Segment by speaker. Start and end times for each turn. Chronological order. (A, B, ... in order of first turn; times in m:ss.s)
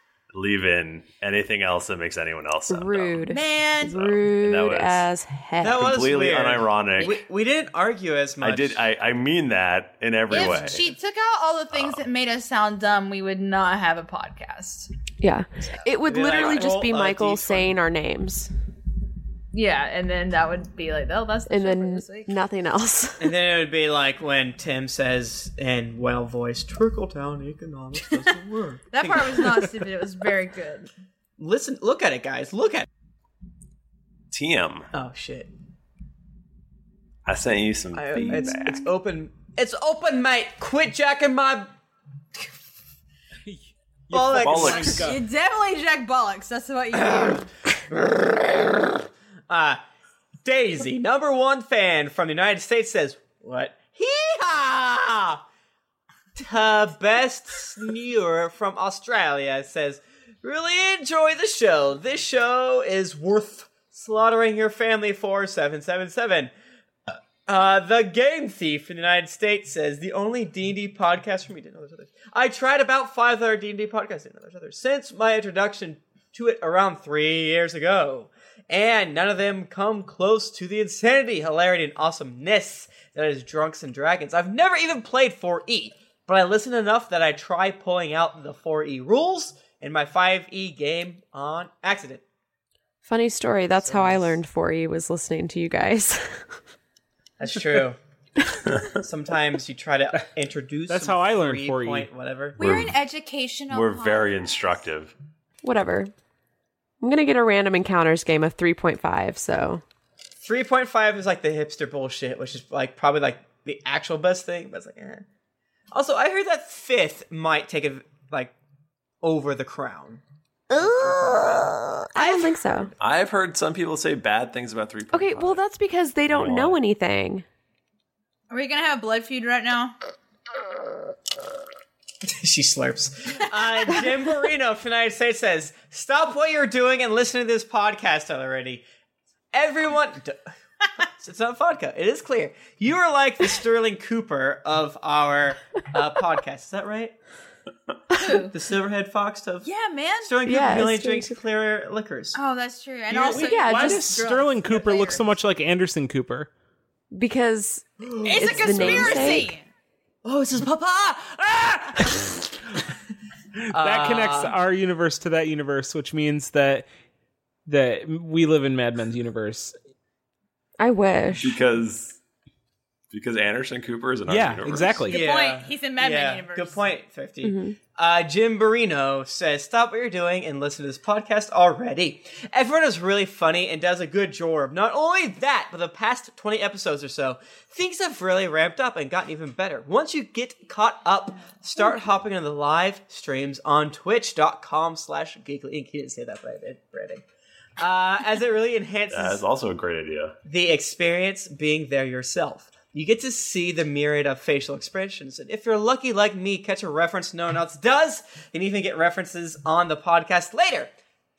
0:00.3-0:03.2 A
0:02.7-0:05.8 B
0:03.3-0:04.0 C
0:03.8-0:05.1 A
0:05.6-0:08.8 D
0:05.7-0:07.2 A
0:08.4-0:10.9 A
0:10.3-0:14.9 C
0:11.7-0:12.0 A
0:15.2-0:18.5 B
0:16.0-0:17.7 D
0:19.5-0:22.3 C
0:21.5-0:23.3 B
0:23.2-0:29.8 D
0:28.9-0:30.9 C
0:31.4-0:32.9 D
0:34.3-0:34.9 A
0:34.9-0:35.5 D
0:37.2-0:38.8 A
0:37.9-0:41.7 D
0:43.4-0:45.2 E
0:44.1-0:45.0 D
0:44.3-0:45.1 A
0:45.0-0:47.4 C
0:46.9-0:49.8 D
0:50.4-0:55.4 D
0:56.4-1:06.5 D
1:07.4-1:32.2 D
1:33.0-1:36.4 B
1:33.8-1:34.4 D
1:37.4-1:38.0 D
1:38.9-1:42.6 D
1:40.9-1:42.1 E
1:42.6-1:44.5 C
1:42.6-1:43.0 A
1:43.7-1:45.1 A
1:45.6-1:46.1 B
1:47.0-1:49.8 B
1:50.4-1:55.2 D
1:55.9-1:58.5 D
1:59.2-2:00.2 D
2:00.7-2:02.9 B
2:00.7-2:02.9 D
2:03.0-2:05.6 A
2:05.1-2:07.4 B
2:06.3-2:06.8 A
2:08.5-2:09.9 C
2:12.2-2:18.8 D
2:19.5-2:20.4 D
2:21.2-2:27.1 D
2:28.2-2:28.5 C
2:28.5-2:29.7 D
2:29.6-2:30.3 C
2:30.2-2:32.4 D
2:30.4-2:31.4 B
2:32.3-2:35.2 C
2:33.1-2:33.5 D
2:33.1-2:36.5 E
2:33.3-2:34.1 B
2:37.1-2:39.5 B
2:38.0-2:39.5 D
2:38.2-2:39.6 C
2:40.2-2:42.5 D
2:43.7-2:44.5 D
2:43.7-2:46.9 E
2:47.7-2:49.7 E
2:50.8-2:51.6 B
2:51.4-2:52.2 A
2:53.1-2:55.1 A
2:54.3-2:55.2 E
2:55.1-2:56.8 C
2:55.1-3:17.2 D
2:57.4-2:57.8 B
3:17.8-3:19.4 D
3:19.1-3:20.4 A
3:20.4-3:30.9 D